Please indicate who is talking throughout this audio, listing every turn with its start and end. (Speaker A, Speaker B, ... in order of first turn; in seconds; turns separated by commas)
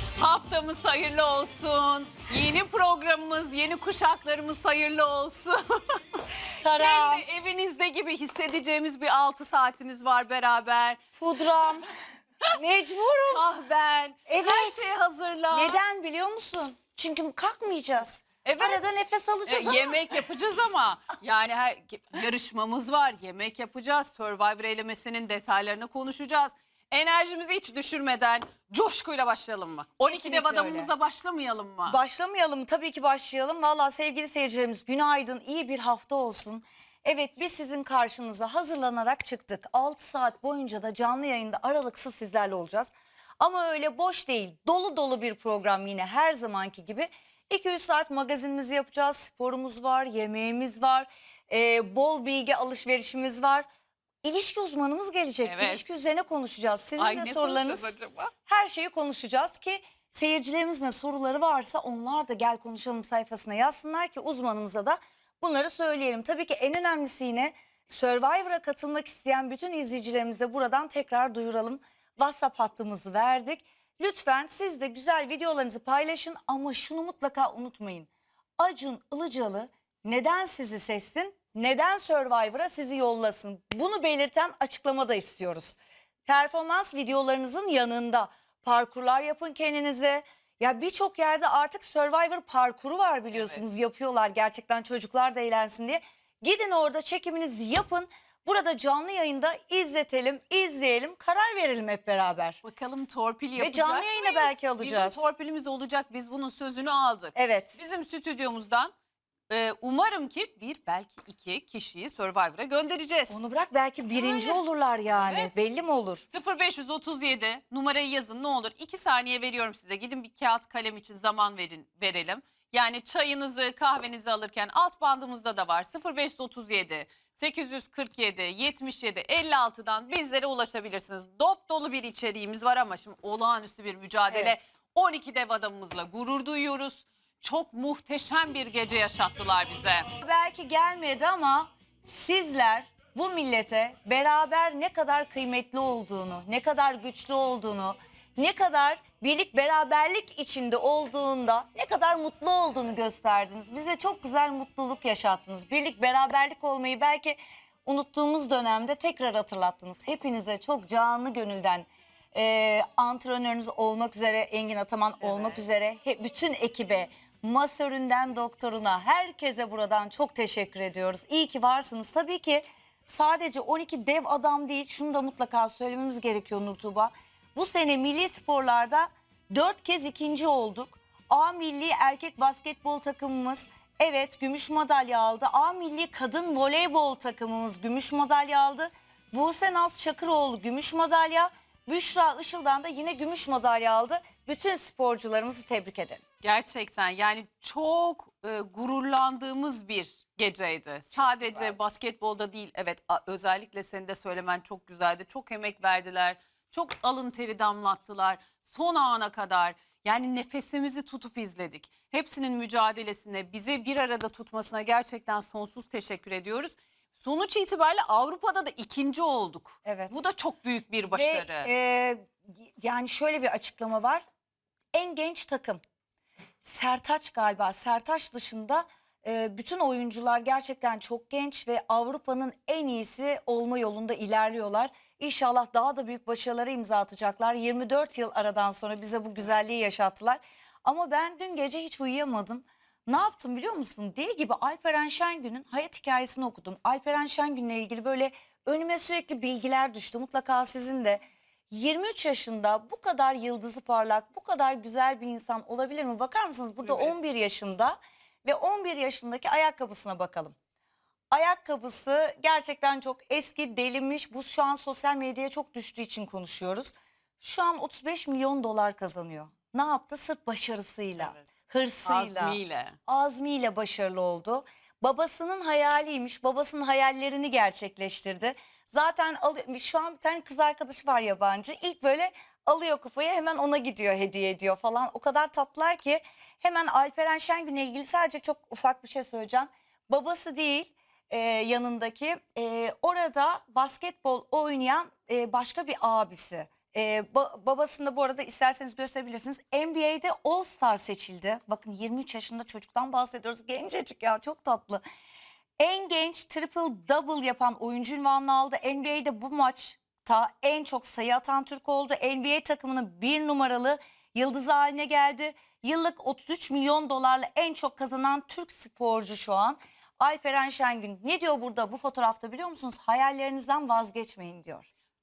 Speaker A: 0.2-11.0, Speaker B: 6.6-7.2, Speaker B: 11.2-11.9, Speaker B: 12.5-13.4, Speaker A: 13.3-15.8, Speaker B: 14.3-14.9, Speaker B: 15.5-20.2, Speaker A: 18.4-18.8, Speaker A: 19.5-32.0, Speaker B: 30.0-30.9, Speaker B: 31.9-53.6, Speaker B: 54.2-57.9, Speaker A: 55.4-55.8, Speaker A: 57.0-58.3, Speaker B: 58.5-102.6, Speaker A: 93.3-93.6, Speaker A: 102.6-108.9, Speaker B: 103.6-105.3, Speaker B: 107.3-107.8, Speaker A: 109.5-113.4, Speaker B: 113.3-116.2, Speaker A: 114.1-114.6, Speaker A: 115.1-115.5, Speaker A: 116.3-140.1, Speaker B: 134.3-134.6, Speaker B: 140.2-196.2, Speaker A: 165.3-165.6, Speaker A: 196.4-221.7, Speaker B: 201.1-201.9, Speaker B: 219.8-220.2, Speaker B: 221.1-224.2, Speaker B: 224.9-225.8, Speaker B: 226.6-260.5, Speaker A: 256.9-257.2, Speaker B: 261.3-305.0, Speaker A: 272.0-273.0, Speaker B: 305.8-324.9